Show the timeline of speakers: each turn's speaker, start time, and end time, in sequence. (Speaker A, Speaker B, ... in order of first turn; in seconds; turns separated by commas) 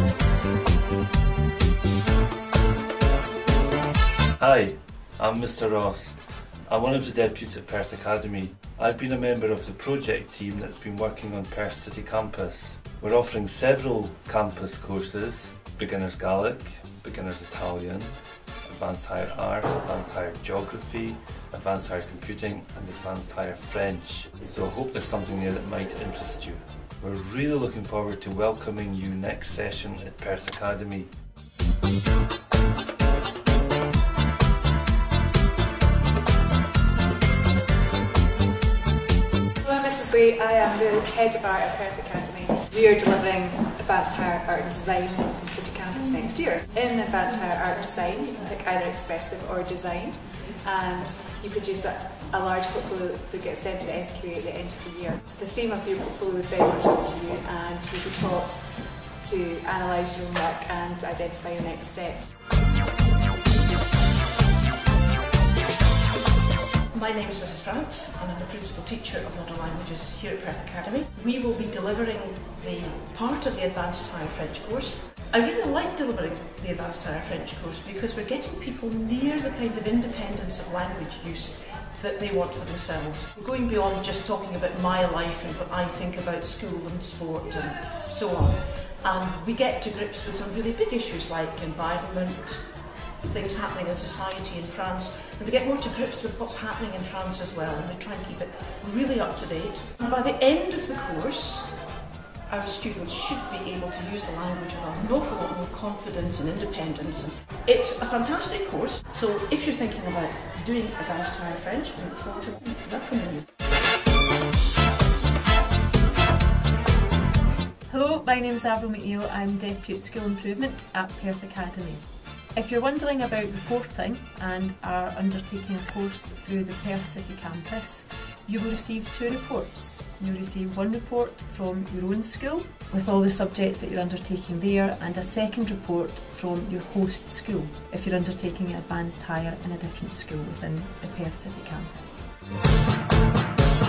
Speaker A: 4.4-18.1, Speaker A: 18.6-31.1, Speaker B: 39.7-45.5, Speaker C: 39.9-58.5, Speaker B: 47.3-61.5, Speaker C: 59.2-62.2, Speaker D: 66.9-101.9, Speaker D: 102.5-113.5, Speaker C: 117.8-142.3